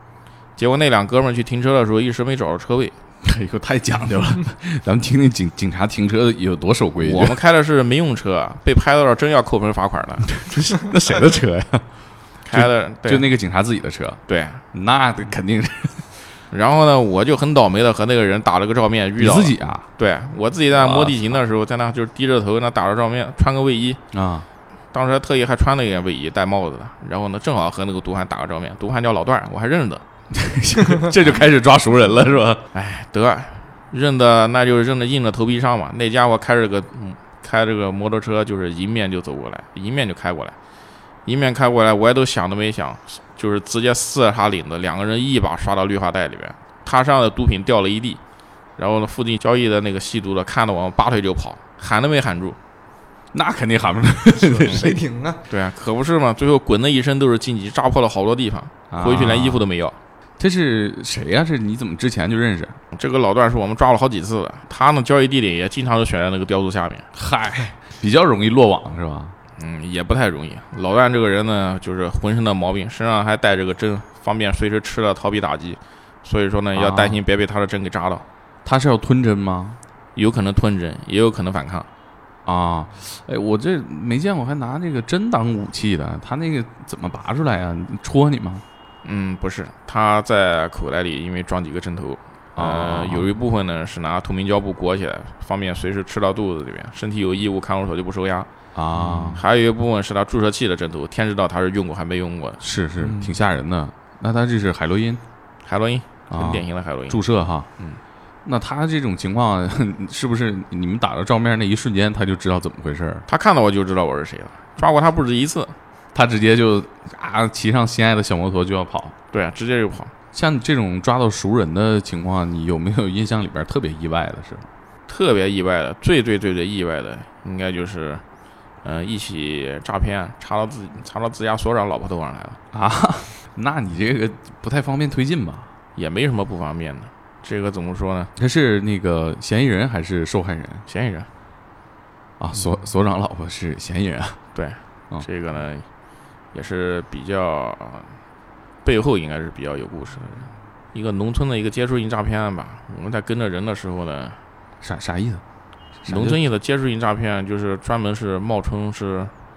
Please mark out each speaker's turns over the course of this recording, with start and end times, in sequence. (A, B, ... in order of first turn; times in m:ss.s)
0:00.6-0:03.0 A
0:03.2-0:07.4 B
0:07.0-0:10.4 A
0:10.3-0:11.9 B
0:12.4-0:13.3 A
0:12.5-0:16.2 B
0:14.3-0:14.6 A
0:16.5-0:24.0 A
0:19.2-0:19.9 B
0:20.7-0:21.4 B
0:24.1-0:24.5 B
0:24.9-0:30.0 A
0:30.3-0:32.7 B
0:32.7-0:40.6 A
0:41.2-0:48.2 A
0:48.8-0:52.6 A
0:53.3-0:55.0 B
0:54.3-0:55.4 C
0:55.5-1:00.0 A
0:58.9-0:59.7 B
1:00.4-1:02.8 B
1:02.9-1:07.1 A
1:07.1-1:09.3 B
1:09.6-1:18.2 A
1:16.7-1:17.2 B
1:18.6-1:19.8 B
1:20.2-1:21.9 A
1:22.4-1:28.6 B
1:29.0-1:38.5 A
1:32.6-1:33.3 B
1:38.7-1:39.4 B
1:39.0-1:39.3 C
1:39.3-1:42.6 A
1:42.6-1:45.2 B
1:43.0-1:43.4 C
1:45.6-1:47.2 A
1:46.3-1:47.7 B
1:48.4-1:53.2 B
1:53.3-1:55.7 A
1:56.1-1:59.2 B
1:59.3-2:00.1 A
2:00.3-2:04.7 B
2:05.1-2:08.2 A
2:08.8-2:12.6 A
2:12.7-2:15.7 B
2:16.0-2:18.3 A
2:18.4-2:20.8 B
2:20.9-2:21.3 A
2:22.4-2:24.4 B
2:24.5-2:25.8 A
2:26.5-2:28.2 A
2:28.8-2:34.4 A
2:34.8-2:35.4 B
2:36.0-2:36.4 B
2:36.0-2:39.3 A